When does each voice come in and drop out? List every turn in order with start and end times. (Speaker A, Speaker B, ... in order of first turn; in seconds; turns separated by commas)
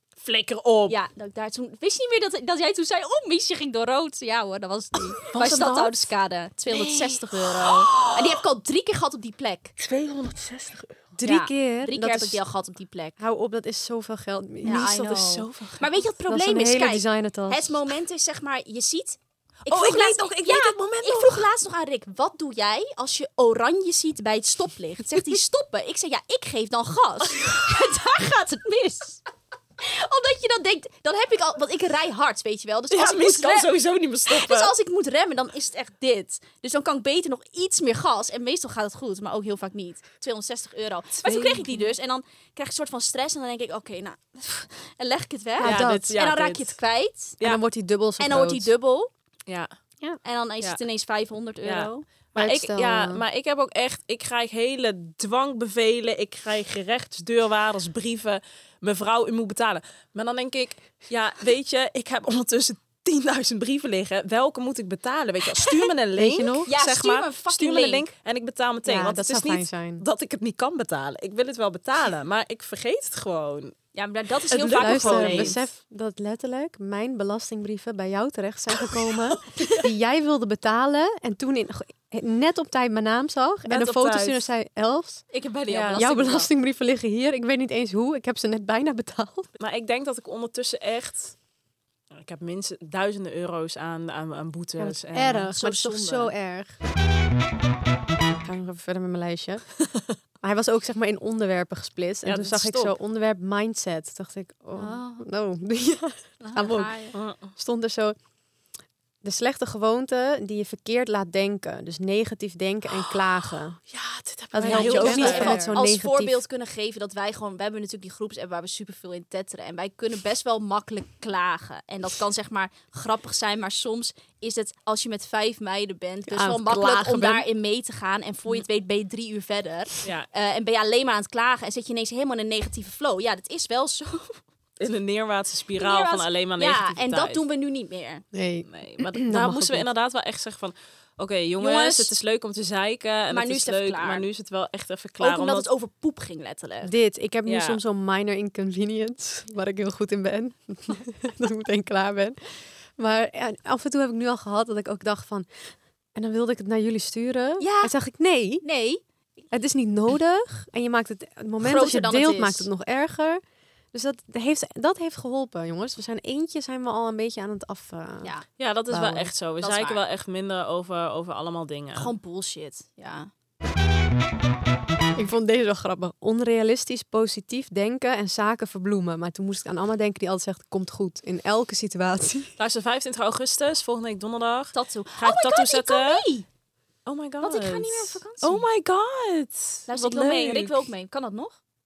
Speaker A: 0.2-1.0, Speaker B: 0.9-9.8, Speaker A: 5.2-5.9, Speaker A: 6.7-8.4, Speaker A: 9.8-10.9, Speaker C: 11.2-12.4, Speaker B: 11.2-13.2, Speaker C: 13.2-14.9, Speaker B: 14.6-29.2, Speaker A: 14.6-16.0, Speaker C: 16.3-17.8, Speaker A: 19.7-21.5, Speaker B: 29.8-33.7, Speaker A: 32.9-34.7, Speaker B: 34.3-47.4, Speaker A: 41.2-41.9, Speaker C: 45.6-46.1, Speaker A: 45.6-46.8, Speaker C: 47.4-48.7, Speaker B: 48.2-49.1, Speaker A: 49.5-49.7, Speaker B: 50.2-52.0, Speaker A: 51.6-73.8, Speaker C: 52.4-53.2, Speaker B: 65.6-65.8, Speaker C: 66.2-66.7, Speaker B: 66.7-68.1, Speaker C: 68.8-70.0, Speaker B: 73.9-75.6, Speaker A: 74.5-75.6, Speaker C: 74.7-85.2, Speaker A: 79.6-79.8, Speaker A: 83.7-84.5, Speaker B: 85.3-86.5, Speaker A: 85.7-86.0, Speaker C: 85.9-89.5, Speaker A: 89.6-91.3, Speaker A: 92.1-95.5, Speaker C: 94.8-96.8, Speaker B: 95.5-96.3, Speaker C: 98.4-99.6, Speaker C: 100.4-108.2, Speaker A: 102.2-102.9, Speaker B: 104.7-105.2, Speaker B: 106.4-107.2, Speaker A: 107.1-107.5, Speaker C: 109.2-113.8, Speaker A: 112.9-115.8, Speaker C: 114.5-116.4, Speaker B: 114.6-134.4, Speaker C: 126.3-127.5, Speaker A: 134.8-137.4, Speaker B: 135.8-138.2, Speaker C: 138.3-139.9, Speaker A: 138.7-145.7, Speaker B: 141.6-142.1, Speaker B: 143.3-144.3, Speaker B: 145.2-146.9, Speaker C: 146.8-152.4, Speaker A: 147.4-147.8, Speaker C: 152.9-155.5, Speaker C: 156.1-158.6, Speaker B: 157.6-157.9, Speaker B: 158.6-159.0, Speaker C: 159.5-163.4, Speaker B: 161.6-162.7, Speaker C: 163.9-168.3, Speaker A: 168.6-172.1, Speaker C: 168.9-169.3, Speaker B: 169.6-170.0, Speaker B: 171.9-173.3, Speaker C: 175.2-182.5, Speaker A: 182.6-186.3, Speaker B: 184.7-186.4, Speaker A: 187.1-190.8, Speaker B: 187.4-188.7, Speaker B: 189.9-191.6